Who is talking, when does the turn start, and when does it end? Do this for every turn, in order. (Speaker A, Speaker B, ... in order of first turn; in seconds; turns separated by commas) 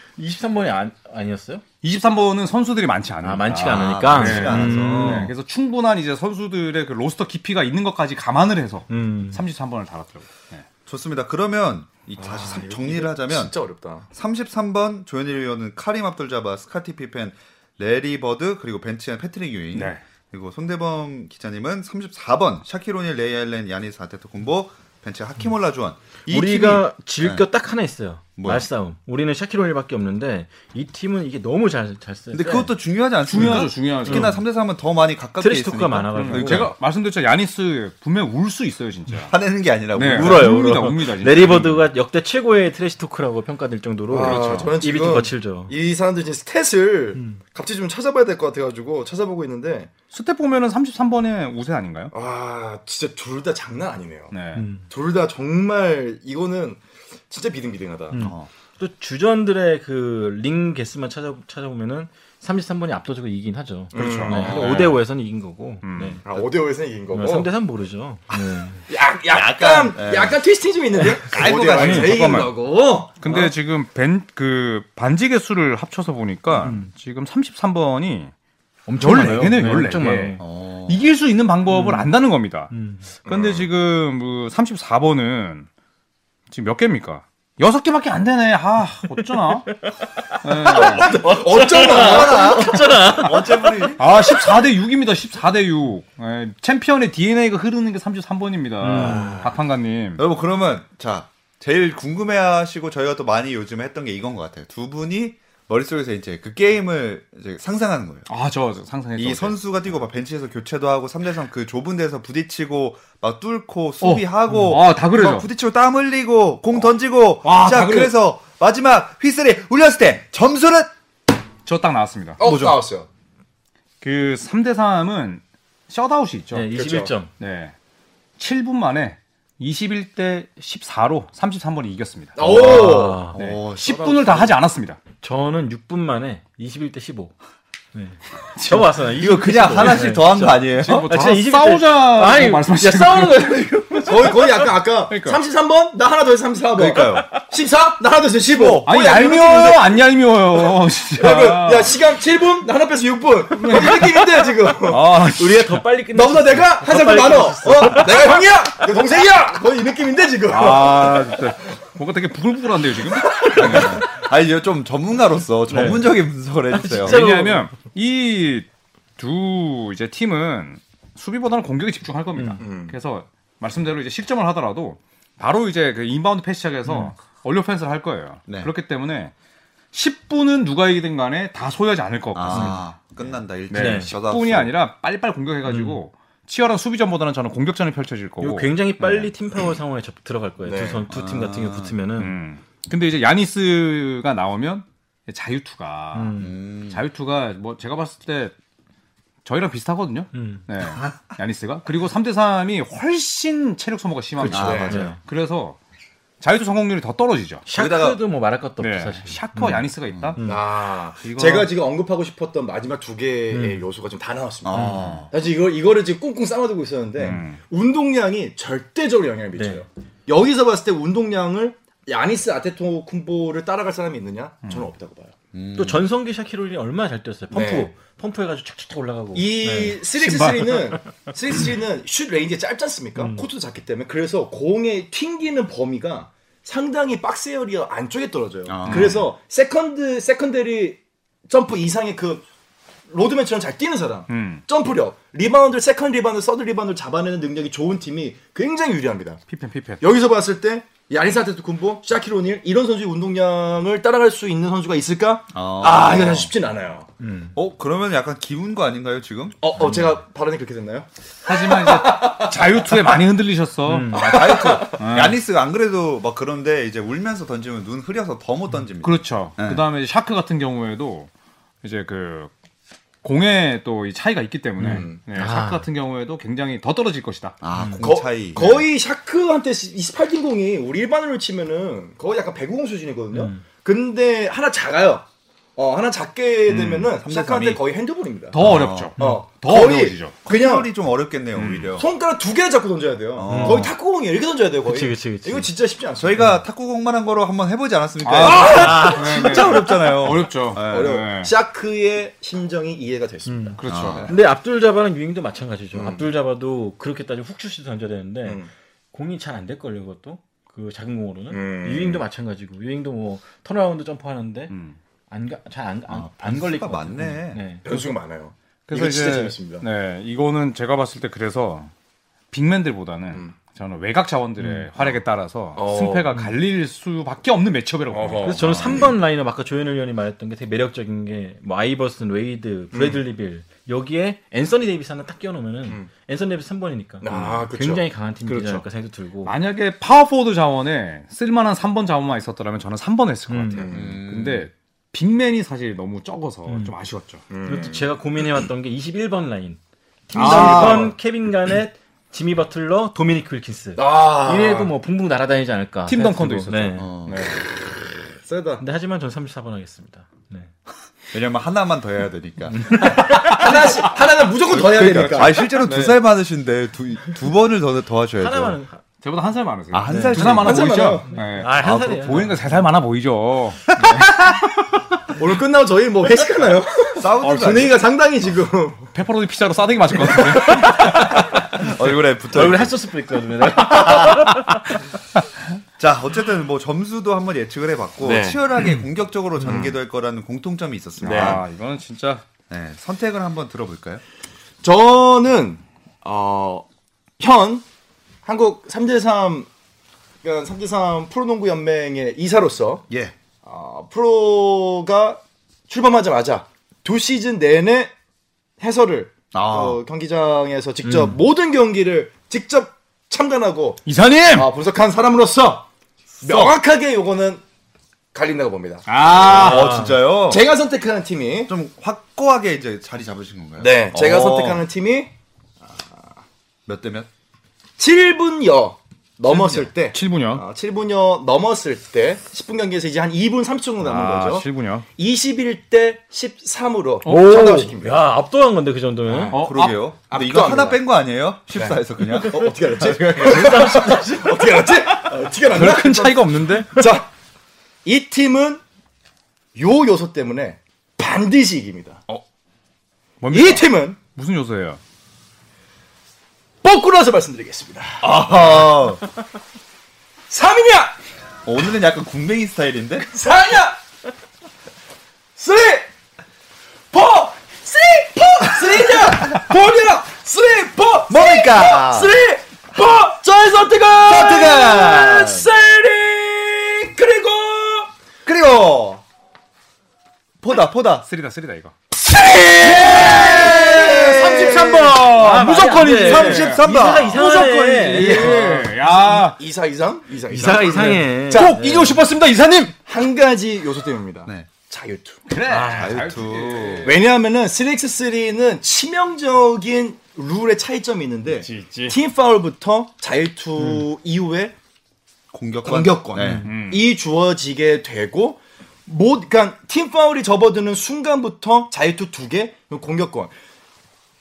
Speaker A: 0.2-1.6, Speaker B: 1.8-10.6, Speaker A: 3.2-5.3, Speaker C: 3.6-5.3, Speaker A: 8.9-9.4, Speaker C: 10.9-13.5, Speaker D: 12.2-14.1, Speaker C: 14.1-27.5, Speaker B: 19.7-20.0, Speaker A: 26.3-32.7, Speaker C: 28.4-28.7, Speaker C: 32.3-36.7, Speaker B: 33.3-34.4, Speaker A: 33.4-34.4, Speaker A: 35.4-36.7, Speaker B: 36.1-39.3, Speaker C: 39.3-40.6, Speaker B: 39.9-41.9, Speaker A: 40.1-45.7, Speaker D: 44.1-49.9, Speaker B: 44.2-44.7, Speaker B: 50.1-52.1, Speaker D: 52.1-54.3, Speaker B: 54.3-54.7, Speaker A: 54.5-54.9, Speaker D: 54.9-58.3, Speaker A: 58.1-66.2, Speaker C: 58.2-58.5, Speaker D: 63.9-64.5, Speaker B: 63.9-65.0, Speaker C: 64.3-64.9, Speaker B: 65.8-66.2, Speaker D: 66.2-67.5, Speaker A: 67.1-68.8, Speaker D: 68.9-73.4, Speaker C: 69.3-70.4, Speaker B: 71.3-72.5, Speaker C: 71.3-72.1, Speaker A: 71.8-72.2, Speaker B: 73.2-78.3, Speaker A: 76.6-76.9, Speaker A: 78.9-80.4, Speaker B: 79.0-82.7, Speaker C: 80.4-81.0, Speaker A: 81.7-82.1, Speaker A: 82.7-83.1, Speaker B: 83.2-85.7, Speaker D: 83.3-83.7, Speaker B: 86.5-89.7, Speaker A: 89.8-93.9, Speaker B: 90.4-91.2, Speaker D: 90.7-92.7, Speaker C: 91.8-94.1, Speaker B: 94.0-100.2, Speaker A: 98.8-99.5, Speaker C: 98.9-99.5, Speaker C: 100.2-108.3, Speaker B: 108.3-109.6, Speaker C: 109.2-120.9, Speaker B: 114.0-115.5, Speaker B: 117.4-118.1, Speaker B: 121.7-122.4, Speaker D: 122.4-123.1, Speaker C: 122.4-122.8, Speaker B: 124.0-126.7, Speaker A: 126.5-127.3, Speaker D: 126.7-127.1, Speaker B: 127.4-127.7, Speaker B: 128.4-135.0, Speaker D: 132.4-133.2, Speaker A: 132.4-133.4, Speaker C: 132.9-134.6, Speaker A: 135.2-137.3, Speaker A: 137.9-144.7, Speaker B: 138.6-139.0, Speaker C: 139.2-141.1, Speaker B: 140.8-143.7, Speaker D: 144.1-150.0, Speaker B: 145.1-145.4, Speaker C: 146.8-147.3, Speaker B: 148.7-152.0, Speaker D: 151.2-155.0, Speaker B: 153.6-155.8, Speaker A: 155.3-158.4, Speaker D: 156.1-161.4, Speaker B: 160.5-164.0, Speaker C: 163.6-167.2, Speaker A: 165.7-166.2, Speaker A: 166.7-167.7, Speaker B: 167.0-168.7, Speaker B: 169.2-179.3, Speaker A: 172.4-172.6, Speaker D: 172.6-172.9, Speaker A: 176.9-177.1, Speaker B: 179.9-182.8, Speaker C: 182.3-184.7, Speaker A: 182.5-182.8, Speaker B: 183.7-189.3, Speaker A: 183.7-184.1, Speaker A: 185.7-186.0, Speaker A: 188.4-192.3, Speaker D: 190.7-191.1, Speaker C: 191.1-191.9, Speaker B: 192.2-198.5, Speaker A: 196.1-196.5, Speaker C: 196.4-197.0, Speaker B: 199.4-205.8, Speaker A: 200.3-200.6, Speaker C: 200.9-201.3, Speaker A: 204.4-205.2, Speaker D: 204.5-205.0, Speaker C: 204.5-205.1, Speaker B: 206.4-207.6, Speaker A: 207.7-209.8, Speaker C: 207.7-208.2, Speaker B: 208.8-210.5, Speaker C: 210.1-210.4, Speaker A: 210.4-210.6, Speaker D: 210.4-225.3, Speaker B: 211.2-211.7, Speaker A: 213.5-213.8, Speaker C: 214.7-215.3, Speaker A: 214.8-215.1, Speaker B: 217.2-217.6, Speaker A: 219.6-219.8, Speaker C: 225.5-226.1, Speaker A: 225.8-230.7, Speaker D: 227.5-227.9, Speaker D: 229.3-242.5, Speaker B: 230.2-230.8, Speaker A: 233.2-233.4, Speaker C: 238.7-239.3, Speaker B: 238.9-239.1, Speaker D: 243.1-249.4, Speaker B: 244.3-244.6, Speaker B: 249.5-250.0, Speaker D: 250.0-257.1, Speaker C: 255.5-256.5, Speaker A: 257.2-257.6, Speaker C: 257.6-259.6, Speaker D: 259.6-262.6, Speaker B: 261.4-265.4, Speaker A: 263.9-264.4, Speaker D: 264.1-265.0, Speaker C: 264.1-269.8, Speaker B: 269.0-271.3, Speaker B: 271.8-272.5, Speaker B: 273.2-277.6, Speaker A: 274.8-275.9, Speaker D: 274.8-275.2, Speaker C: 277.6-278.9, Speaker A: 277.7-278.1, Speaker D: 278.0-285.2, Speaker A: 283.3-283.6, Speaker D: 285.8-288.6, Speaker B: 286.7-287.1, Speaker C: 286.7-287.8, Speaker B: 288.5-290.4, Speaker C: 288.6-289.1, Speaker A: 289.2-289.4, Speaker D: 289.2-290.9, Speaker C: 290.4-292.1, Speaker B: 291.5-291.9, Speaker D: 292.0-296.5, Speaker C: 293.4-293.9, Speaker A: 293.5-293.9, Speaker A: 294.9-295.7, Speaker C: 296.2-301.2, Speaker B: 298.2-301.5, Speaker D: 298.4-299.2, Speaker A: 298.5-299.3, Speaker D: 300.8-303.8, Speaker A: 303.5-308.6, Speaker B: 303.8-304.4, Speaker C: 303.9-304.3, Speaker D: 305.9-306.3, Speaker D: 308.4-308.7, Speaker A: 309.1-314.7, Speaker D: 311.5-312.2, Speaker B: 314.7-315.0, Speaker A: 315.3-317.9, Speaker C: 316.1-317.6, Speaker D: 317.9-319.9, Speaker B: 318.9-321.9, Speaker B: 322.5-329.1, Speaker A: 324.6-324.9, Speaker D: 325.8-326.3, Speaker D: 328.1-329.1, Speaker A: 328.4-339.5, Speaker D: 332.9-333.2, Speaker D: 337.2-338.1, Speaker B: 338.5-338.9, Speaker B: 339.4-347.4, Speaker A: 343.5-343.9, Speaker D: 343.7-344.2, Speaker C: 343.9-344.7, Speaker A: 346.7-346.9, Speaker D: 347.5-348.1, Speaker A: 347.6-357.1, Speaker B: 350.3-351.1, Speaker D: 350.3-351.1, Speaker D: 354.0-354.9, Speaker B: 356.1-357.6, Speaker C: 357.0-357.4, Speaker D: 358.4-358.8, Speaker A: 358.8-360.7, Speaker C: 361.3-363.1, Speaker A: 362.7-363.8, Speaker D: 363.2-365.6, Speaker B: 363.4-364.1, Speaker B: 364.7-366.2, Speaker C: 364.7-368.8, Speaker A: 368.4-369.0, Speaker B: 369.2-374.5, Speaker C: 369.9-371.1, Speaker A: 370.1-370.4, Speaker D: 370.3-371.4, Speaker A: 371.3-372.6, Speaker C: 371.7-372.6, Speaker D: 375.4-379.1, Speaker C: 377.2-378.0, Speaker B: 379.1-381.4, Speaker D: 380.4-380.8, Speaker A: 380.8-381.8, Speaker C: 381.8-382.9, Speaker A: 382.5-384.9, Speaker C: 383.8-384.6, Speaker C: 386.0-391.6, Speaker D: 388.2-388.9, Speaker D: 389.6-390.0, Speaker B: 391.2-392.4, Speaker D: 391.2-391.6, Speaker C: 392.7-394.2, Speaker D: 394.8-396.9, Speaker D: 397.4-397.9, Speaker D: 398.4-399.7, Speaker D: 400.4-403.1, Speaker D: 403.6-408.1, Speaker D: 408.8-415.9, Speaker C: 409.5-410.0, Speaker B: 414.1-414.7, Speaker C: 416.4-416.8, Speaker D: 416.4-417.6, Speaker D: 418.3-421.7, Speaker B: 419.1-419.9, Speaker C: 419.4-420.6, Speaker A: 419.6-420.1, Speaker C: 421.7-424.9, Speaker D: 423.8-425.3, Speaker D: 425.9-426.2, Speaker C: 426.9-427.3, Speaker D: 428.0-438.2, Speaker C: 429.5-429.9, Speaker B: 429.7-430.6, Speaker B: 434.0-435.1, Speaker A: 437.3-439.6, Speaker D: 439.3-439.5, Speaker B: 439.5-440.0, Speaker C: 439.5-443.2, Speaker D: 440.3-441.0, Speaker D: 441.7-447.3, Speaker A: 443.3-444.8, Speaker B: 445.7-447.0, Speaker D: 448.0-448.8, Speaker D: 449.8-452.2, Speaker B: 453.4-455.0, Speaker D: 453.5-454.2, Speaker D: 456.8-458.9, Speaker C: 458.2-459.2, Speaker D: 460.5-461.2, Speaker C: 461.7-463.3, Speaker D: 463.2-464.0, Speaker D: 465.6-466.1, Speaker D: 467.1-478.1, Speaker C: 471.3-472.3, Speaker C: 474.2-475.7, Speaker C: 478.4-479.2, Speaker C: 480.6-481.3, Speaker B: 481.2-481.9, Speaker D: 482.4-485.2, Speaker B: 482.8-487.4, Speaker C: 482.9-488.3, Speaker A: 483.4-488.7, Speaker D: 487.0-487.5, Speaker B: 488.1-489.6, Speaker D: 488.1-492.2, Speaker A: 490.5-492.2, Speaker B: 491.5-492.9, Speaker D: 493.1-495.4, Speaker B: 495.5-497.2, Speaker A: 495.7-496.1, Speaker C: 495.7-497.1, Speaker D: 497.1-504.8, Speaker B: 501.6-502.2, Speaker C: 505.5-506.7, Speaker D: 505.8-513.5, Speaker B: 506.6-507.1